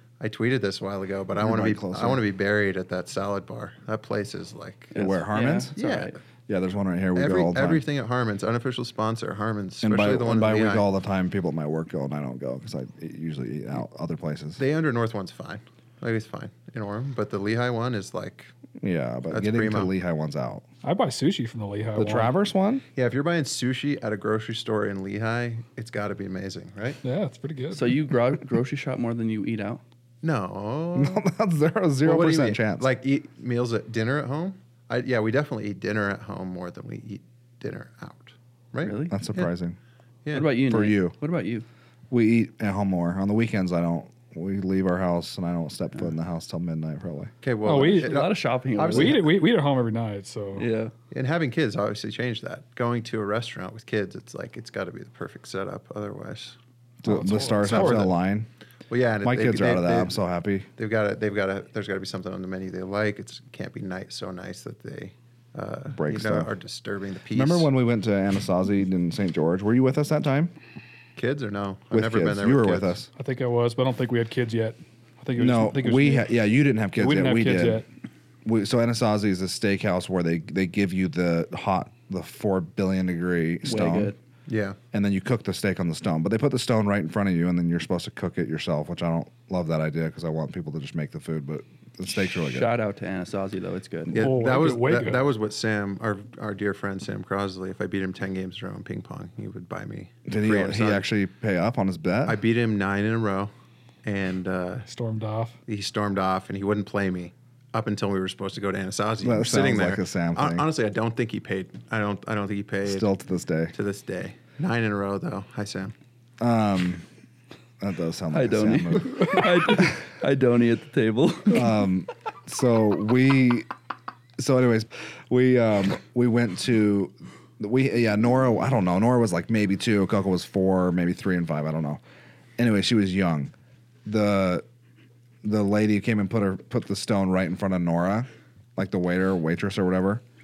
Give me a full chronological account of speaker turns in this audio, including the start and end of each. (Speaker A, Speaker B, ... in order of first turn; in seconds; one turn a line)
Speaker A: 0.2-5.0
Speaker B: 1.4-2.2
Speaker C: 4.9-6.2
Speaker B: 4.9-5.7
Speaker A: 5.8-6.2
Speaker B: 6.5-7.8
Speaker A: 7.1-10.8
Speaker B: 9.8-14.6
Speaker A: 14.6-18.5
Speaker B: 18.8-20.6
Speaker A: 19.3-19.9
Speaker D: 20.8-22.3
Speaker B: 21.9-22.8
Speaker A: 22.9-27.0
Speaker D: 27.0-28.0
Speaker C: 27.7-29.8
Speaker A: 30.2-31.3
Speaker B: 30.9-32.9
Speaker A: 32.0-39.5
Speaker C: 38.8-39.1
Speaker B: 39.1-39.8
Speaker A: 40.2-40.5
Speaker C: 40.3-41.6
Speaker B: 40.6-41.1
Speaker B: 42.1-47.3
Speaker A: 47.4-49.3
Speaker D: 47.6-48.1
Speaker C: 47.7-49.3
Speaker D: 48.9-50.6
Speaker C: 50.5-50.9
Speaker A: 51.1-56.6
Speaker B: 57.0-58.5
Speaker D: 57.0-58.1
Speaker A: 57.6-58.1
Speaker A: 58.9-60.2
Speaker B: 59.2-60.7
Speaker A: 60.8-67.7
Speaker B: 65.9-66.5
Speaker B: 67.3-70.5
Speaker A: 71.2-73.0
Speaker B: 71.9-73.1
Speaker D: 73.2-76.3
Speaker B: 75.4-77.8
Speaker D: 77.0-77.8
Speaker B: 78.4-84.1
Speaker C: 83.6-84.2
Speaker A: 84.5-84.8
Speaker B: 84.9-92.7
Speaker C: 92.4-94.3
Speaker A: 94.1-101.1
Speaker D: 94.1-95.2
Speaker B: 100.2-102.4
Speaker A: 102.2-103.5
Speaker A: 104.0-104.9
Speaker D: 104.9-105.5
Speaker A: 105.7-113.1
Speaker B: 109.2-110.7
Speaker B: 112.8-113.7
Speaker A: 113.7-115.9
Speaker B: 116.4-117.0
Speaker B: 117.8-119.5
Speaker C: 118.3-121.7
Speaker B: 121.5-123.7
Speaker B: 124.4-132.0
Speaker B: 132.6-133.5
Speaker B: 134.0-134.6
Speaker B: 135.4-140.2